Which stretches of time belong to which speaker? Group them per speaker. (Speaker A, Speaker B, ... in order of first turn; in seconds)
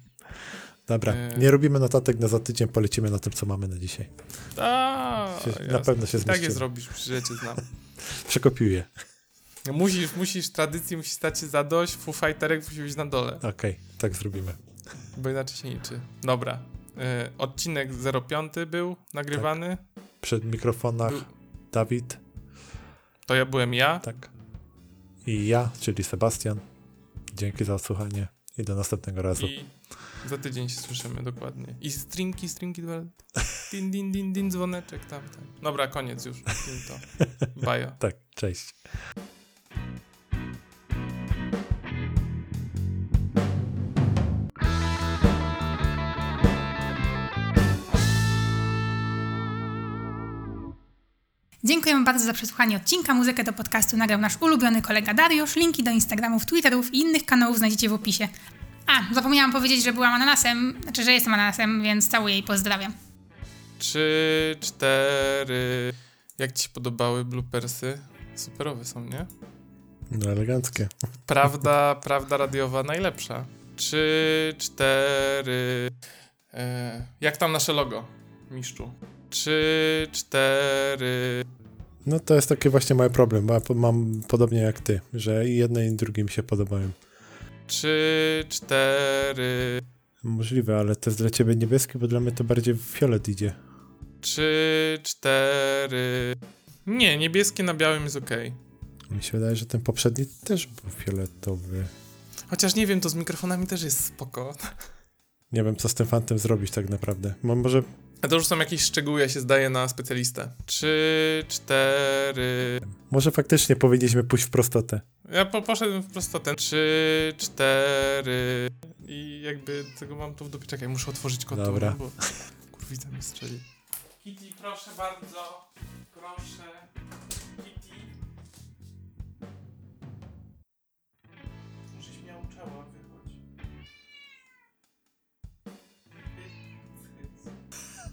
Speaker A: 0.9-4.1, 5.4-6.7, 8.0-8.9, 13.4-14.6, 20.2-22.2, 24.0-24.3, 25.2-26.6, 27.3-29.5, 38.0-38.9, 70.1-70.9, 82.0-87.0, 90.2-93.6, 99.1-101.9, 105.5-107.9, 112.9-115.0, 121.5-122.4
Speaker B: 1.1-1.5, 4.5-7.6, 9.6-13.4, 15.1-19.8, 23.3-24.1, 29.4-38.0, 63.8-69.3, 71.2-76.0, 76.5-81.5, 87.7-89.8, 94.2-98.6, 102.5-104.9, 108.2-112.8, 115.2-123.6, 124.2-126.9, 127.5-128.1, 131.9-133.4
Speaker C: 51.6-58.3, 58.9-62.9